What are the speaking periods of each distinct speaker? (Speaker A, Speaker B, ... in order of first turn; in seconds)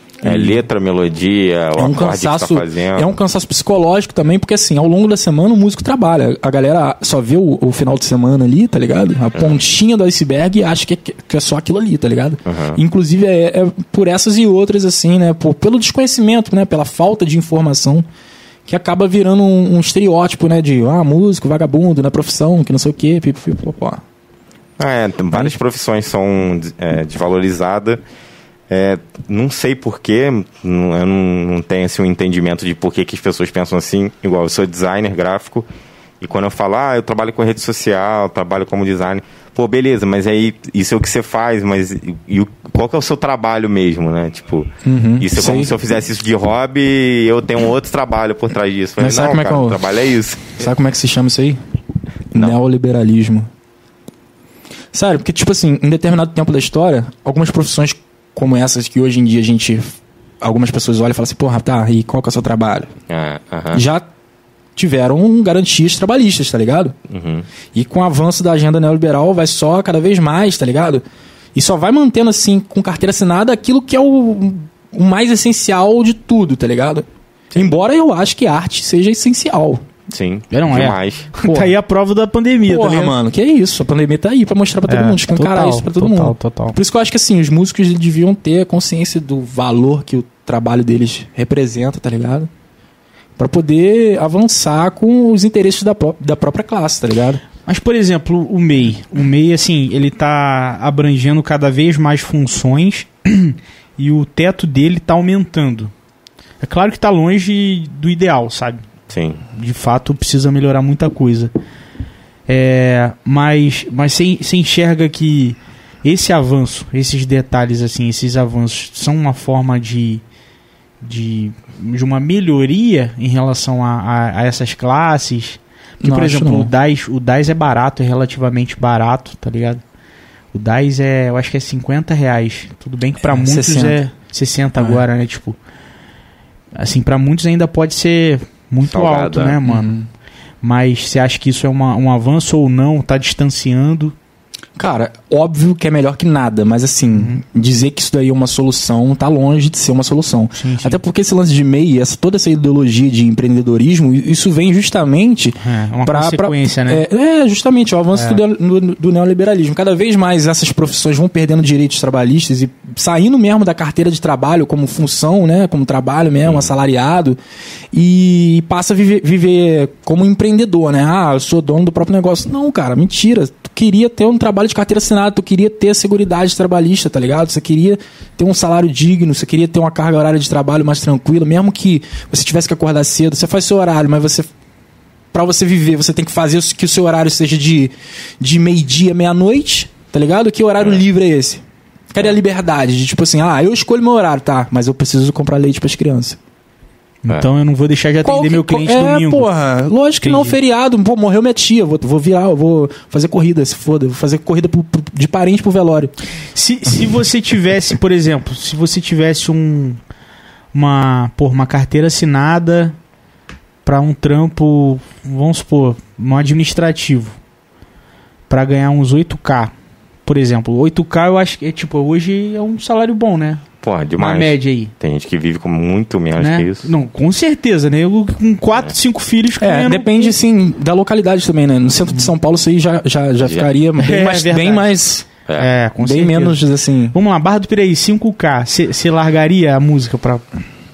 Speaker A: 0.2-0.6, 1.8-18.0, 18.7-24.0, 44.8-45.7, 49.0-49.8, 50.6-51.6, 52.3-53.5, 54.9-62.9, 63.7-64.1, 64.8-67.0, 67.7-71.0, 71.5-79.8, 81.4-81.8, 82.6-92.5, 93.4-97.4, 126.0-126.7, 133.2-134.0, 134.8-135.0, 139.6-140.1, 144.8-167.4, 167.9-184.5, 185.3-196.4, 198.2-206.1, 229.6-235.3, 236.0-237.1
Speaker B: 0.2-3.1, 12.4-12.8, 24.8-28.0, 28.7-35.6, 36.2-50.6, 63.1-63.8, 67.1-67.5, 80.1-81.3, 109.1-109.4, 138.8-139.6, 166.4-166.7, 223.8-226.9, 233.4-233.7
Speaker C: 80.5-83.2, 84.9-86.8, 97.7-105.9, 106.6-108.8, 109.5-111.5, 112.5-120.2, 121.0-129.8, 130.5-135.6, 136.7-139.9, 140.6-144.1, 147.1-147.4, 150.5-151.0, 155.6-157.0, 158.1-158.4, 197.2-199.5, 200.2-200.5, 206.5-210.0, 210.7-212.9, 213.8-217.4, 218.5-219.7, 220.2-223.6, 224.2-224.9, 226.4-230.3, 234.0-234.9, 235.6-236.6, 237.1-240.5